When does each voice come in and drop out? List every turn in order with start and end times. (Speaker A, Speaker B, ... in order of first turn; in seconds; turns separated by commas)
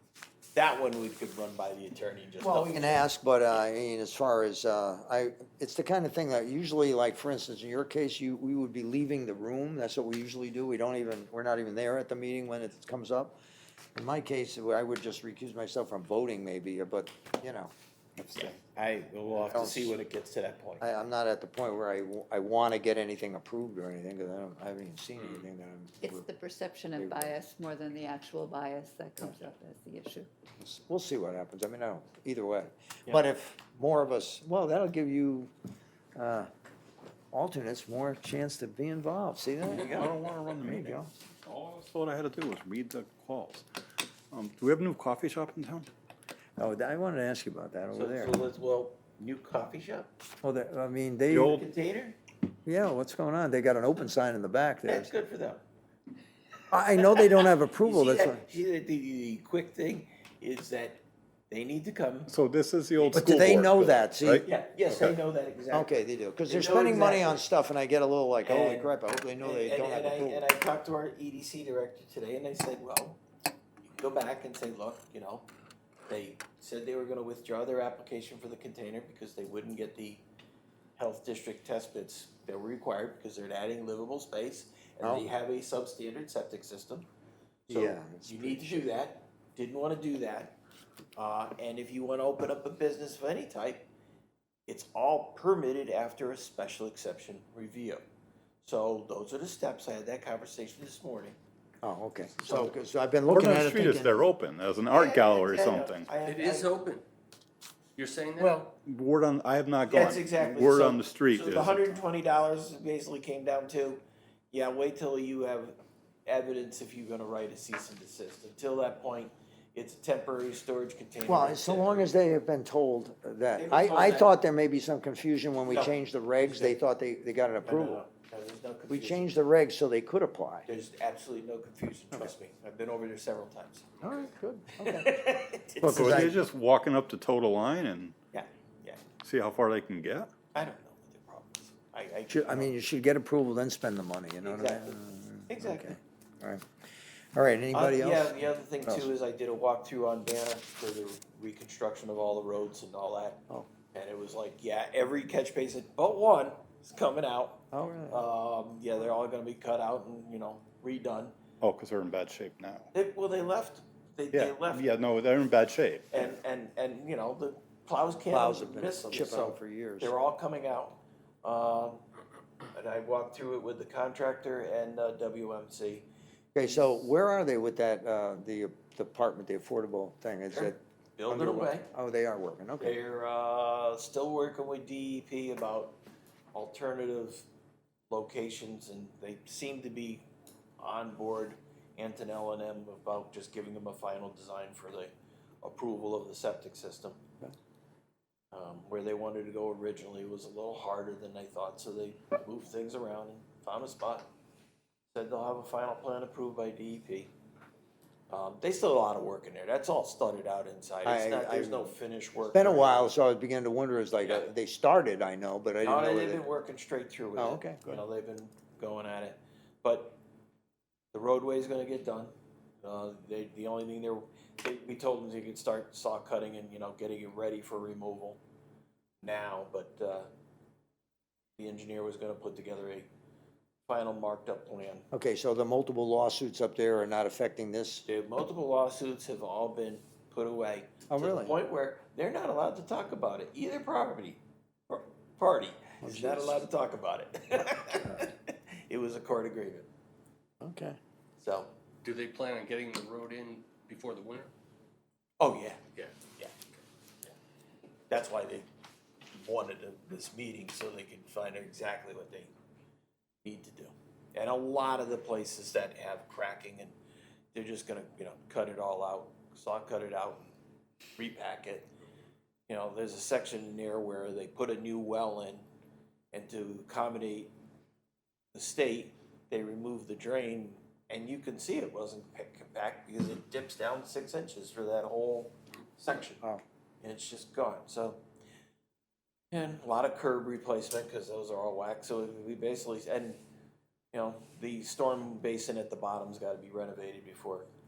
Speaker A: 0.5-3.0, Speaker B: 2.4-13.3, Speaker B: 13.9-18.5, Speaker A: 18.3-20.9, Speaker B: 19.4-19.9, Speaker B: 20.8-26.3, Speaker C: 26.0-30.3, Speaker B: 26.9-27.4, Speaker B: 30.6-35.5, Speaker B: 36.1-36.5, Speaker B: 37.3-40.1, Speaker A: 39.6-40.2, Speaker D: 39.8-43.7, Speaker B: 40.6-41.1, Speaker D: 44.3-45.9, Speaker B: 46.6-48.4, Speaker A: 47.9-50.1, Speaker B: 50.4-51.6, Speaker D: 51.3-51.6, Speaker A: 51.4-52.2, Speaker B: 52.6-55.1, Speaker A: 54.9-55.6, Speaker B: 56.7-58.4, Speaker A: 57.8-62.3, Speaker D: 62.3-65.1, Speaker A: 63.0-63.6, Speaker B: 63.1-64.5, Speaker A: 64.4-67.4, Speaker B: 65.7-70.5, Speaker A: 68.4-73.2, Speaker A: 73.9-75.5, Speaker A: 76.1-80.2, Speaker A: 81.0-87.0, Speaker B: 85.0-85.3, Speaker A: 87.7-90.6, Speaker B: 87.7-88.9, Speaker A: 91.2-93.9, Speaker A: 94.7-98.0, Speaker A: 98.6-101.4, Speaker B: 101.8-104.3, Speaker A: 102.3-102.8, Speaker D: 103.3-106.1, Speaker A: 104.9-106.8, Speaker E: 106.2-107.0, Speaker E: 108.0-108.6, Speaker D: 108.7-112.0, Speaker A: 109.9-115.7, Speaker A: 116.2-122.1, Speaker B: 121.2-128.0, Speaker A: 123.5-124.3, Speaker A: 125.6-126.8, Speaker A: 127.6-129.4, Speaker B: 128.9-130.7, Speaker A: 130.7-134.1, Speaker B: 134.0-135.1, Speaker A: 134.8-136.3, Speaker B: 135.8-136.4, Speaker D: 135.8-138.1, Speaker A: 138.3-139.0, Speaker D: 139.2-140.3, Speaker A: 140.5-142.7, Speaker B: 142.3-146.7, Speaker A: 144.4-146.0, Speaker B: 147.3-149.1, Speaker A: 147.7-161.3, Speaker B: 157.7-158.2, Speaker D: 161.6-162.9, Speaker A: 162.9-164.9, Speaker D: 164.3-166.3, Speaker A: 166.1-172.0, Speaker B: 168.3-170.1, Speaker A: 172.7-176.1, Speaker B: 176.5-182.9, Speaker A: 180.5-181.9, Speaker A: 182.8-186.0, Speaker A: 186.5-187.4, Speaker A: 188.1-190.2, Speaker A: 190.8-195.1, Speaker A: 195.6-197.2, Speaker A: 198.5-204.3, Speaker A: 205.1-207.3, Speaker A: 208.3-213.1, Speaker B: 211.0-211.9, Speaker B: 212.5-216.4, Speaker A: 215.8-220.2, Speaker B: 217.3-218.0, Speaker A: 221.1-228.4, Speaker A: 229.2-230.3, Speaker A: 231.6-233.1, Speaker A: 233.8-235.1, Speaker B: 235.1-238.0, Speaker A: 238.1-249.9, Speaker B: 241.1-241.6, Speaker B: 246.0-246.6, Speaker B: 250.6-251.0, Speaker A: 251.4-251.7, Speaker E: 252.0-254.5, Speaker A: 255.4-256.5, Speaker A: 258.1-258.7, Speaker A: 259.3-262.5, Speaker A: 263.4-266.9, Speaker A: 267.5-270.5, Speaker A: 271.2-271.9, Speaker A: 272.7-275.6, Speaker A: 276.3-277.5, Speaker A: 278.5-286.4, Speaker A: 287.0-288.2, Speaker A: 289.5-293.4, Speaker A: 294.1-297.7